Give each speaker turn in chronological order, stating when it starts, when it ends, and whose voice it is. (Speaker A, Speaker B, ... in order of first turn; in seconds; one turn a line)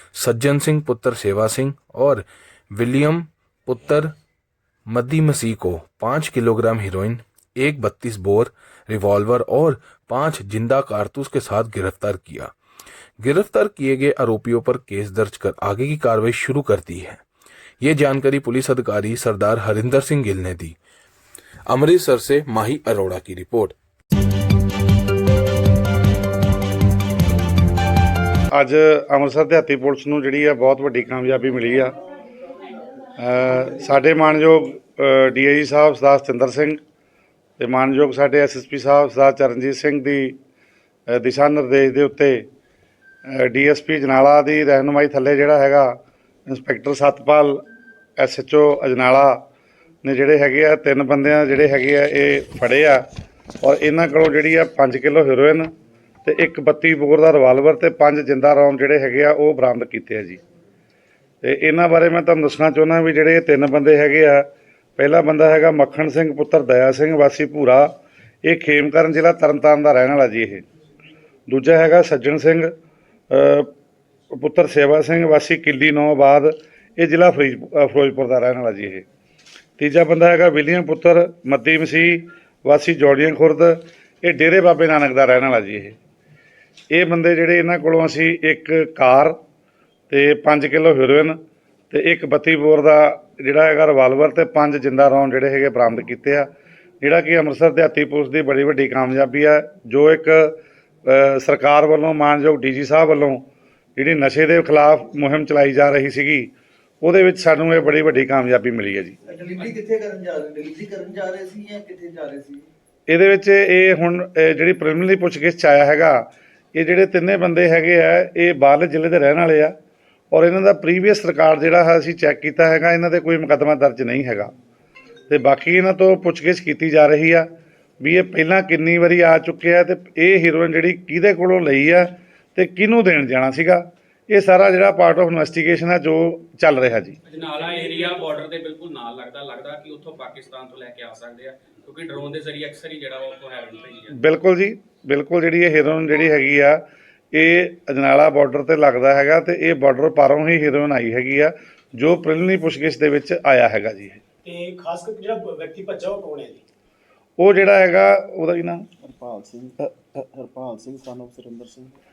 Speaker A: 0.1-4.1
Speaker A: 4.9-12.5
Speaker A: 13.2-17.2
Speaker A: 17.8-20.8
Speaker A: 21.7-23.8
Speaker B: 28.6-31.9
Speaker B: 33.2-36.8
Speaker B: 37.6-40.4
Speaker B: 41.1-42.5
Speaker B: 43.3-47.6
Speaker B: 48.2-49.4
Speaker B: 50.0-53.0
Speaker B: 53.6-55.7
Speaker B: 56.2-60.4
Speaker B: 61.4-70.7
Speaker B: 71.5-72.7
Speaker B: 73.3-73.7
Speaker B: 74.3-79.1
Speaker B: 79.8-86.0
Speaker B: 86.9-89.4
Speaker B: 90.1-91.4
Speaker B: 91.9-96.5
Speaker B: 97.0-103.5
Speaker B: 104.0-109.2
Speaker C: 109.2-112.7
Speaker B: 113.1-119.7
Speaker B: 120.3-124.5
Speaker B: 125.3-127.5
Speaker B: 128.0-137.2
Speaker D: 137.3-144.2
Speaker B: 144.1-154.2
Speaker E: 154.4-156.6
Speaker B: 157.4-158.9
Speaker F: 159.0-161.9